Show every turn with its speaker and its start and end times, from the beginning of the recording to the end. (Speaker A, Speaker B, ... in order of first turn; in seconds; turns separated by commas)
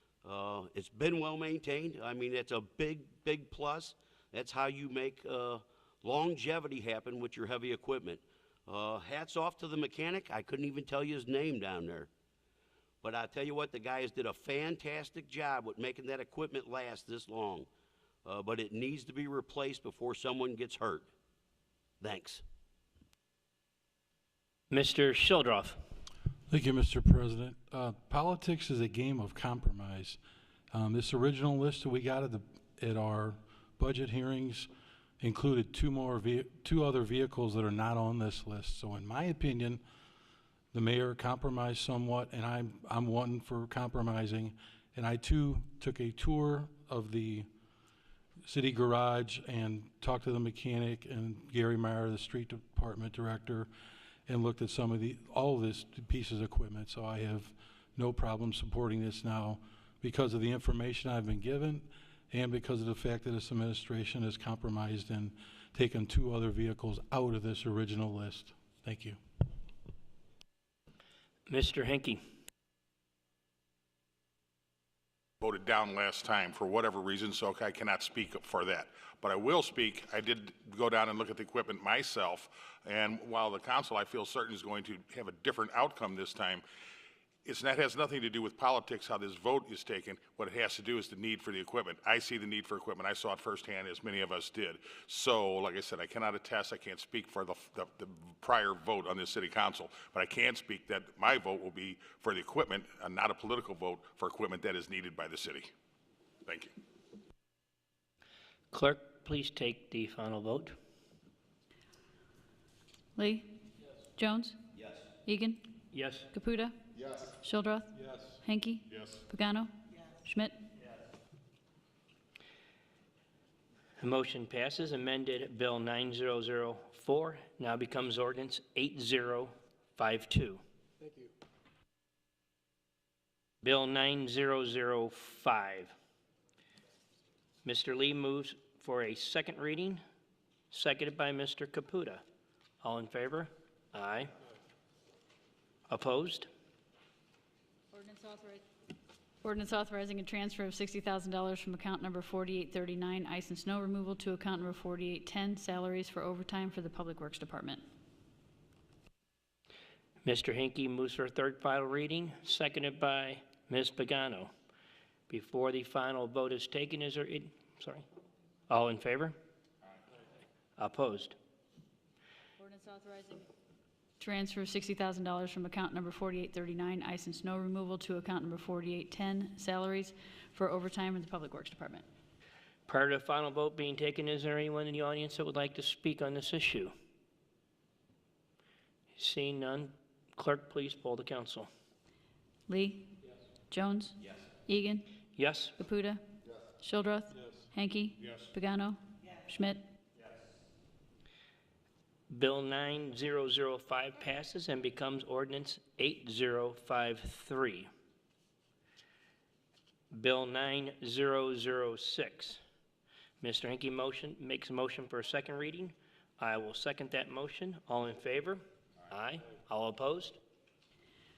Speaker A: 0.2-12.1, Speaker A: 13.0-17.7, Speaker A: 18.2-21.1, Speaker A: 22.0-22.4, Speaker B: 24.7-25.8, Speaker C: 26.5-30.2, Speaker C: 30.7-34.7, Speaker C: 35.2-39.8, Speaker C: 40.7-47.5, Speaker C: 48.4-53.7, Speaker C: 54.3-69.2, Speaker B: 71.5-72.2, Speaker D: 75.4-86.6, Speaker D: 87.4-105.7, Speaker D: 106.4-106.7, Speaker B: 108.7-110.8, Speaker E: 113.2-113.5, Speaker E: 114.2-114.6, Speaker E: 115.2-115.6, Speaker B: 115.9-116.3, Speaker E: 116.3-120.5, Speaker D: 118.9-119.2, Speaker B: 124.0-130.6, Speaker B: 133.6-135.9, Speaker B: 137.6-140.0, Speaker B: 140.7-142.2, Speaker B: 142.8-144.3, Speaker B: 145.9-146.5, Speaker E: 147.9-148.6, Speaker E: 149.4-157.8, Speaker B: 160.2-164.5, Speaker B: 165.3-168.0, Speaker B: 168.7-169.3, Speaker B: 170.8-171.3, Speaker E: 172.6-173.4, Speaker E: 174.2-182.1, Speaker B: 182.9-186.9, Speaker B: 189.1-191.7, Speaker E: 192.7-193.1, Speaker E: 193.7-195.1, Speaker B: 195.3-195.7, Speaker E: 195.8-196.2, Speaker E: 196.8-199.8, Speaker D: 198.2-198.5, Speaker B: 202.3-207.9, Speaker B: 210.1-212.6, Speaker B: 213.4-220.4